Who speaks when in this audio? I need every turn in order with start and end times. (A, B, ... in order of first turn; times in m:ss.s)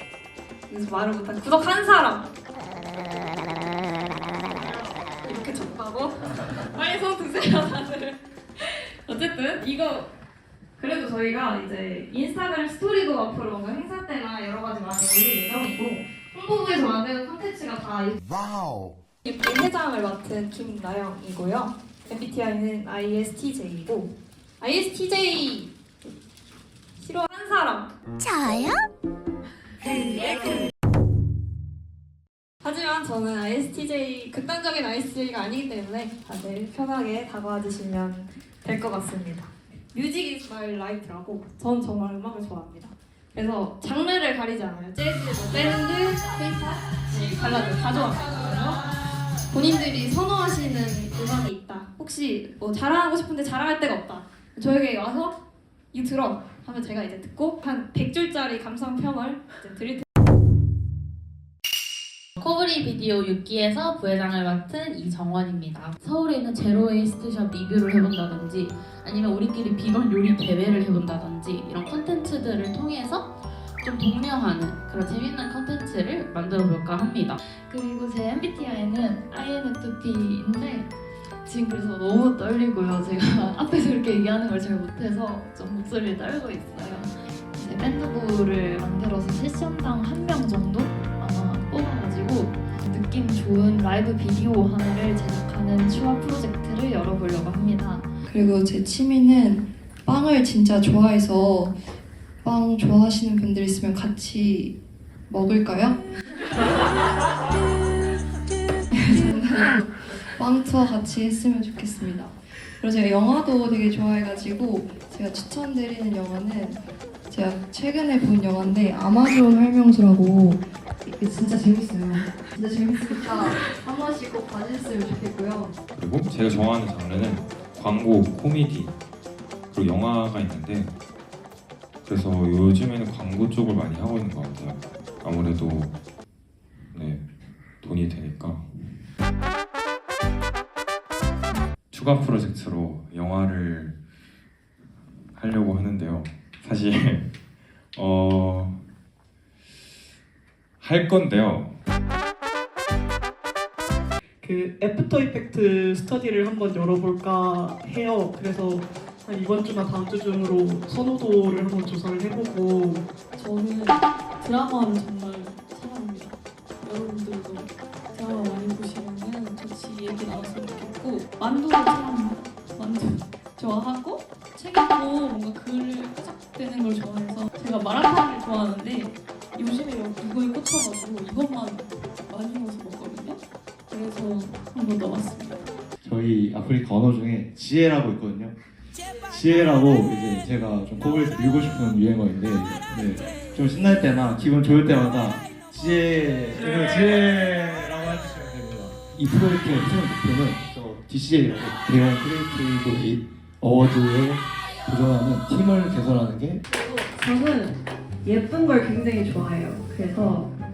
0:00.7-0:02.3 A
0:05.2-0:10.1 A
0:10.8-0:18.2 A
0:19.2-0:25.7 A
0:27.0-0:27.9 A
0:30.0-0:30.6 A
0:32.6-0:48.8 A
0:49.5-0:55.4 A
0:55.9-1:00.0 A
1:02.4-1:13.3 B
1:13.8-1:17.4 B
1:17.6-1:20.9 C
1:21.4-1:38.1 C
1:38.3-1:41.8 D
1:42.4-1:44.8 D
1:45.3-1:46.0 D
1:48.9-2:05.8 D
2:06.0-2:09.0 E
2:09.7-2:10.9 E
2:12.0-2:16.0 E
2:16.9-2:17.2 E
2:17.8-2:18.7 E
2:21.9-2:24.0 E
2:25.3-2:27.2 E
2:28.0-2:28.8 E
2:30.8-2:31.7 E
2:34.4-2:43.0 F
2:43.4-3:03.4 G
3:03.9-3:05.6 G
3:06.0-3:08.6 H
3:09.3-3:26.6 H
3:27.2-3:30.5 I